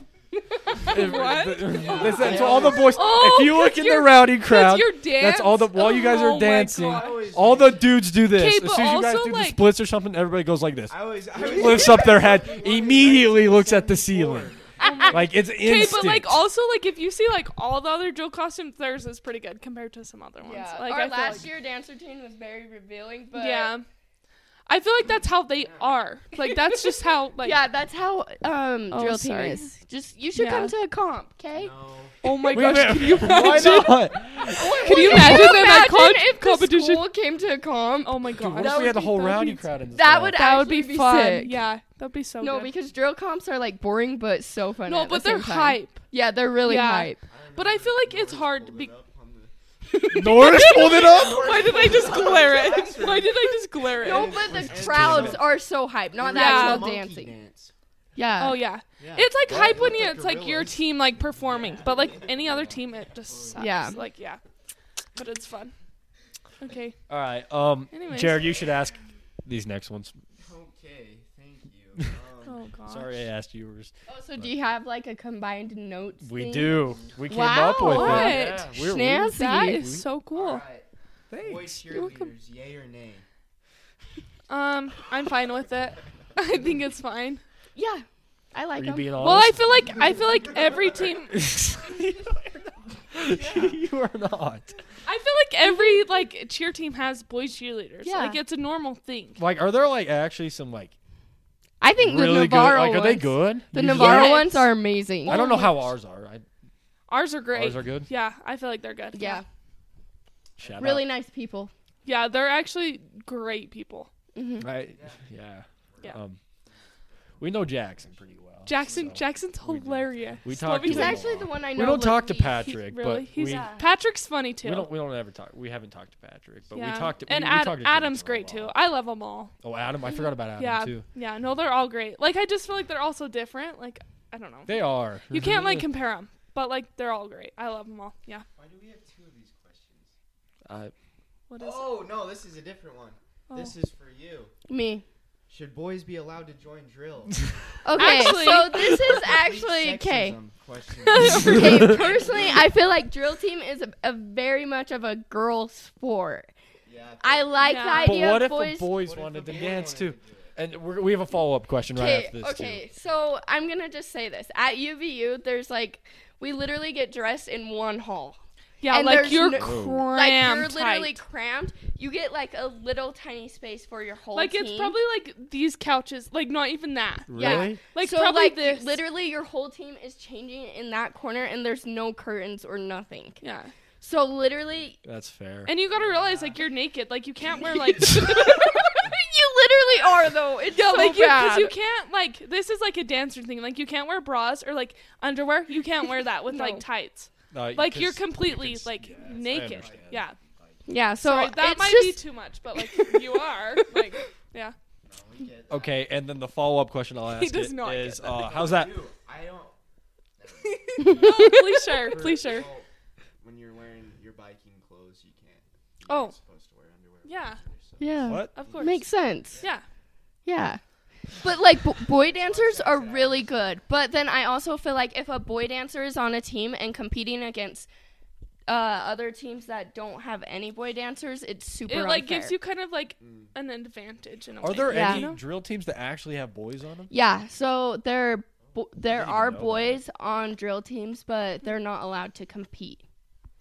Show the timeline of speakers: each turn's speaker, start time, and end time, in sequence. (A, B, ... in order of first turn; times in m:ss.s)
0:00.7-0:07.3 A
0:00.7-0:14.5 B
0:01.7-0:03.3 C
0:06.8-0:08.0 C
0:08.3-0:09.7 A
0:10.9-0:15.2 C
0:14.8-0:21.5 A
0:15.1-0:16.5 B
0:20.4-0:23.8 D
0:23.3-0:23.9 A
0:24.7-0:27.6 A
0:25.6-0:25.9 C
0:27.4-0:31.7 D
0:28.9-0:29.7 A
0:30.3-0:30.7 A
0:31.5-0:32.8 C
0:32.2-0:37.1 A
0:32.5-0:35.8 B
0:33.4-0:33.8 D
0:34.4-0:39.1 D
0:38.0-0:39.7 A
0:38.4-0:40.4 B
0:39.9-0:41.6 D
0:40.4-0:42.7 A
0:42.4-0:47.2 D
0:44.9-0:46.1 A
0:46.6-0:49.0 A
0:47.2-0:49.5 C
0:49.9-0:50.7 D
0:50.1-0:51.7 B
0:50.2-0:54.6 A
0:50.7-0:55.5 C
0:54.0-0:57.4 D
0:54.5-0:55.5 B
0:56.1-0:57.7 C
0:56.3-0:56.9 A
0:58.2-0:58.6 D
0:58.4-1:04.4 A
0:59.0-1:03.7 C
1:03.6-1:04.0 D
1:05.2-1:05.8 A
1:06.6-1:07.0 A
1:07.1-1:10.2 B
1:07.9-1:08.5 A
1:10.4-1:12.6 C
1:12.4-1:13.2 A
1:12.9-1:14.5 B
1:14.1-1:19.9 D
1:16.2-1:20.1 B
1:17.8-1:18.7 A
1:19.2-1:20.6 A
1:20.4-1:23.3 C
1:21.3-1:21.8 B
1:21.9-1:22.3 A
1:24.5-1:27.4 A
1:27.8-1:29.3 D
1:28.8-1:29.9 B
1:29.2-1:31.4 A
1:31.3-1:34.8 B
1:33.4-1:33.8 C
1:35.0-1:39.4 A
1:35.6-1:36.1 D
1:38.0-1:38.4 D
1:39.4-1:40.9 B
1:41.8-1:45.4 D
1:42.0-1:44.6 B
1:43.9-1:44.7 A
1:45.2-1:45.9 A
1:45.3-1:46.5 B
1:47.1-1:49.4 A
1:47.5-1:48.1 B
1:49.1-1:49.4 D
1:50.6-1:51.0 C
1:50.6-1:51.1 B
1:50.8-1:51.7 D
1:52.0-1:54.1 A
1:54.4-1:54.7 D
1:54.6-1:56.4 B
1:54.9-1:55.3 C
1:55.9-1:56.8 C
1:57.4-1:59.2 C
1:57.4-2:03.7 B
1:58.7-2:01.4 A
2:00.7-2:02.7 D
2:02.6-2:04.9 A
2:03.4-2:03.9 D
2:04.6-2:08.8 B
2:06.7-2:09.5 A
2:09.6-2:11.0 B
2:10.6-2:18.5 A
2:14.7-2:15.9 B
2:18.6-2:20.1 C
2:20.7-2:20.9 B
2:21.5-2:22.1 A
2:21.6-2:24.5 C
2:24.7-2:25.0 D
2:25.5-2:27.5 C
2:27.8-2:30.4 D
2:28.0-2:29.0 A
2:28.8-2:32.6 C
2:31.1-2:31.9 A
2:31.2-2:36.5 D
2:31.2-2:31.9 B
2:36.9-2:37.8 C
2:37.2-2:39.0 D
2:37.6-2:38.3 A
2:38.0-2:42.8 B
2:38.9-2:40.6 C
2:42.0-2:55.0 D
2:48.8-2:51.2 A
2:49.3-2:50.1 B
2:54.4-2:59.0 A
2:57.3-2:57.8 B
2:57.3-3:03.4 D
3:03.4-3:03.7 A
3:04.0-3:05.0 D
3:05.0-3:05.7 B
3:05.7-3:09.0 A
3:05.9-3:06.6 C
3:08.2-3:11.7 D
3:10.7-3:20.4 A
3:16.5-3:16.8 D
3:17.5-3:20.2 B
3:19.0-3:20.9 C
3:20.9-3:22.2 D
3:21.2-3:24.8 A
3:22.8-3:23.2 D
3:25.0-3:26.1 C
3:25.7-3:29.0 B
3:27.3-3:28.4 A
3:28.3-3:29.8 C
3:30.4-3:32.9 C
3:31.0-3:32.1 D
3:31.2-3:32.7 A
3:33.4-3:39.8 C
3:36.1-3:36.4 A
3:37.2-3:37.6 A
3:38.0-3:39.6 D
3:38.3-3:38.5 B
3:38.6-3:39.0 A
3:40.5-3:40.8 D
3:41.4-3:43.8 C
3:41.4-3:47.9 D
3:48.7-3:52.6 D
3:51.9-3:55.4 A
3:53.2-3:53.5 C
3:54.6-3:57.1 B
3:54.9-3:55.3 D
3:57.1-4:03.0 D
3:59.1-4:00.0 B